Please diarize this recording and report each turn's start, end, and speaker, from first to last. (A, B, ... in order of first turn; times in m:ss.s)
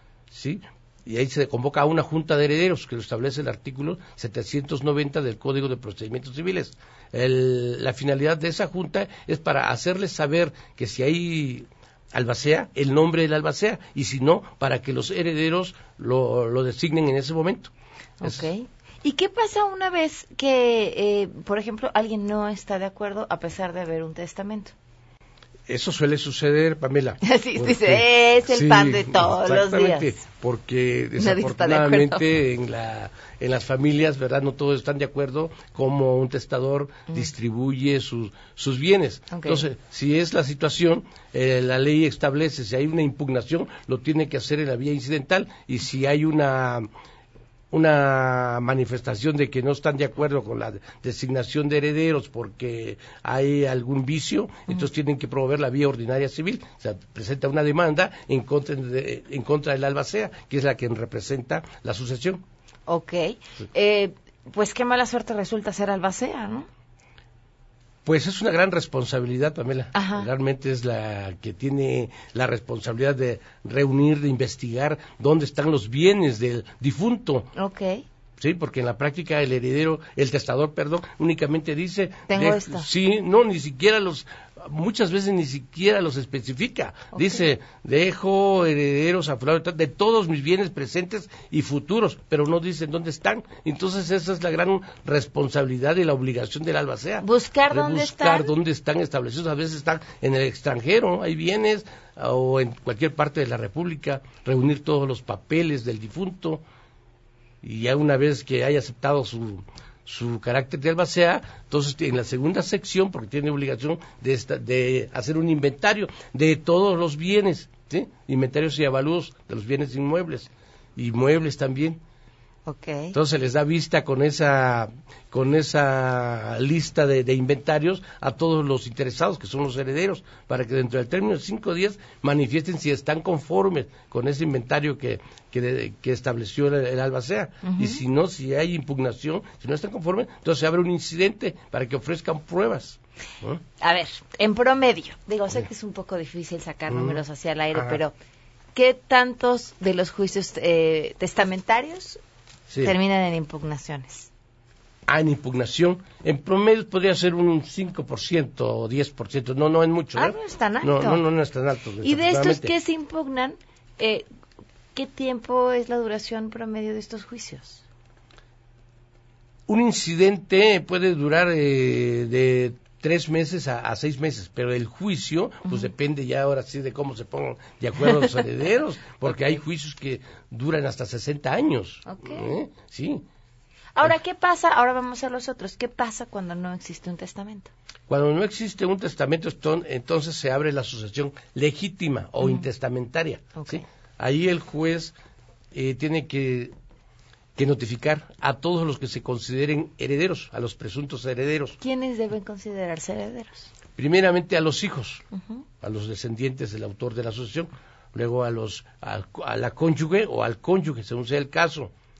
0:00.3-0:18.5 A
0:18.2-0:24.7 B
0:25.7-0:46.9 A
0:27.2-0:30.2 B
0:31.2-0:32.2 B
0:39.3-0:39.7 B
0:47.7-1:02.4 A
1:02.9-1:06.7 B
1:08.0-1:17.5 A
1:09.9-1:10.3 B
1:17.5-1:18.0 B
1:18.4-1:46.6 A
1:22.3-1:22.9 B
1:27.1-1:27.5 B
1:37.2-1:38.5 B
1:47.6-2:02.0 A
2:02.6-2:03.2 B
2:03.1-2:23.6 A
2:17.6-2:18.0 B
2:23.8-2:28.1 B
2:26.9-2:28.0 A
2:28.7-2:32.2 B
2:32.7-2:33.0 A
2:32.8-2:34.3 B
2:35.1-2:42.7 A
2:40.1-2:41.2 B
2:42.0-2:44.2 B
2:44.9-2:47.8 B
2:49.7-3:03.2 A
2:55.6-2:55.9 B
3:02.0-3:02.5 B
3:04.0-3:07.7 B
3:08.1-3:15.2 A
3:13.6-3:13.8 B
3:15.7-3:16.7 A
3:17.6-3:21.8 A
3:21.8-3:23.7 B
3:24.0-3:25.3 A
3:25.3-3:25.6 B
3:25.8-3:31.9 A